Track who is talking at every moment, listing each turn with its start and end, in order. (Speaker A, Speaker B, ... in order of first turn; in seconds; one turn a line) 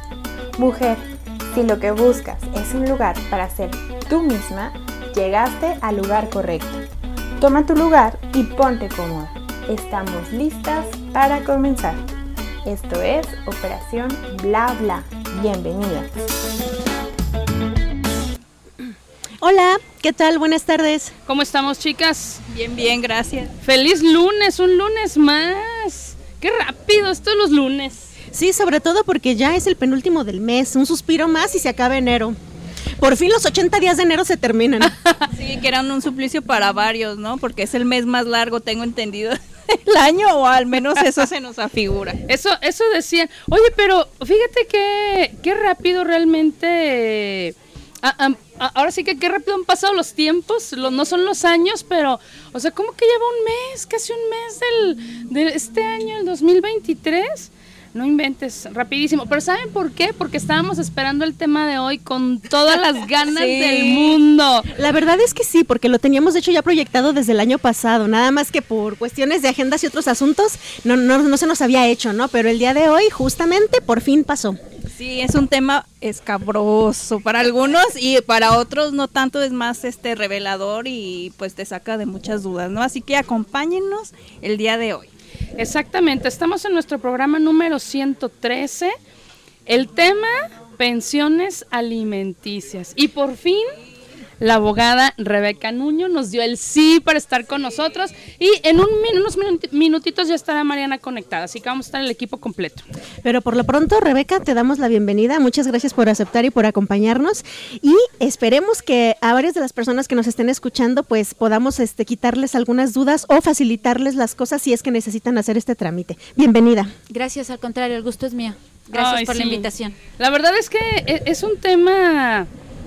Speaker A: 0.6-6.8
Speaker A: 7.4-12.1
Speaker A: 12.6-16.1
Speaker B: 19.4-21.1
Speaker C: 21.3-22.4
Speaker D: 22.5-23.5
Speaker C: 23.6-28.1
Speaker B: 28.3-32.4
Speaker B: 33.0-35.0
Speaker D: 35.3-42.2
Speaker C: 42.3-64.7
Speaker D: 63.2-64.2
Speaker B: 64.7-74.6
Speaker D: 74.9-85.1
Speaker C: 85.6-88.9
Speaker C: 89.7-93.7
Speaker C: 94.4-102.8
Speaker B: 103.2-116.9
Speaker E: 117.1-120.0
Speaker C: 118.9-122.5